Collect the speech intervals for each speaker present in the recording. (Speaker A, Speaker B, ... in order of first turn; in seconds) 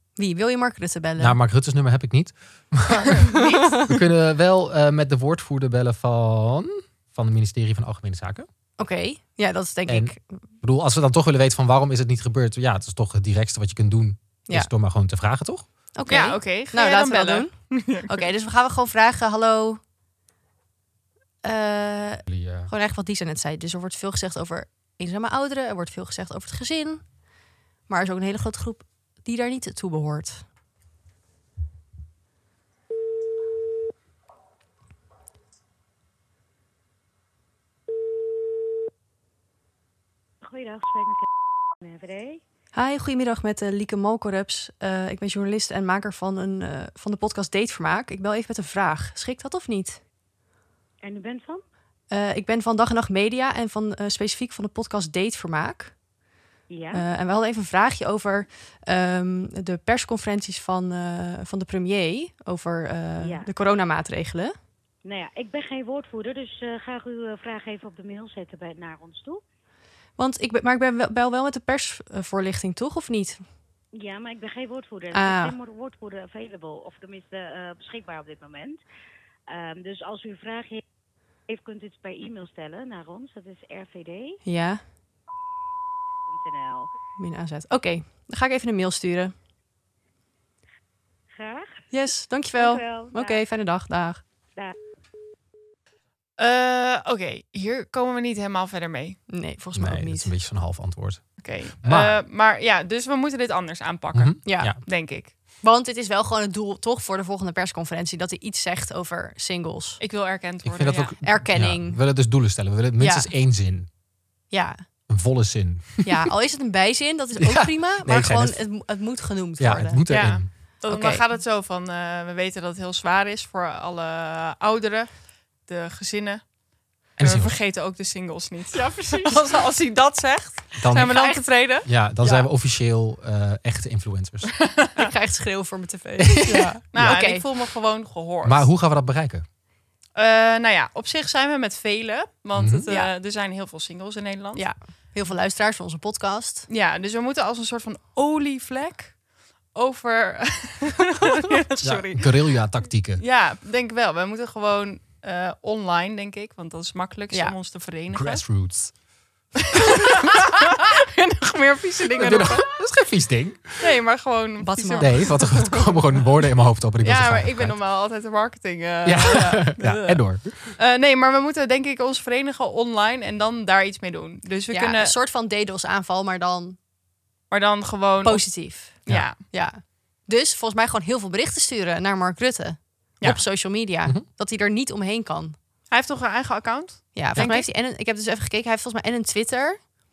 Speaker A: 0.2-1.4, 3.4-3.9, 8.8-10.2, 15.9-19.8, 21.4-27.0, 27.9-30.4, 42.7-50.0, 52.1-55.9, 56.9-64.5, 70.2-73.4, 75.1-75.5, 84.4-84.8, 87.2-89.3, 91.9-94.2, 99.3-100.3, 104.4-104.9, 105.6-110.0, 111.2-112.0, 113.0-113.3, 114.5-114.8, 116.0-120.0, 120.8-121.2, 128.7-129.4, 131.0-131.4, 132.2-132.5, 134.9-137.4, 144.6-146.7, 164.6-165.6, 174.7-176.8, 178.2-185.6, 187.1-189.9
Speaker B: 1.2-3.3, 3.9-8.5, 9.9-15.7, 22.2-22.7, 99.7-102.2, 104.1-104.8, 110.6-113.9, 115.1-116.1, 117.4-118.7, 119.6-120.5, 127.2-127.5, 130.8-131.1, 131.8-134.5, 136.2-137.2, 138.4-139.4, 142.6-142.9, 151.8-153.2, 158.1-158.9, 162.2-163.8, 165.0-167.8, 169.0-170.7
Speaker C: 3.2-3.7, 16.1-18.3, 96.4-99.2, 101.4-105.3, 110.0-111.2, 120.1-126.5, 127.2-131.9, 134.6-135.1, 136.9-138.7, 140.2-144.7, 146.7-149.2, 149.7-152.6, 153.2-158.4, 159.7-162.7, 163.8-165.7, 167.0-175.1, 177.5-179.4, 185.9-187.7
Speaker D: 40.4-41.2, 41.8-42.4, 51.0-51.6, 56.7-57.0, 63.2-63.5, 65.0-69.4, 73.9-78.8, 79.5-80.8, 81.5-84.4, 86.3-86.9, 91.3-91.8, 92.5-93.4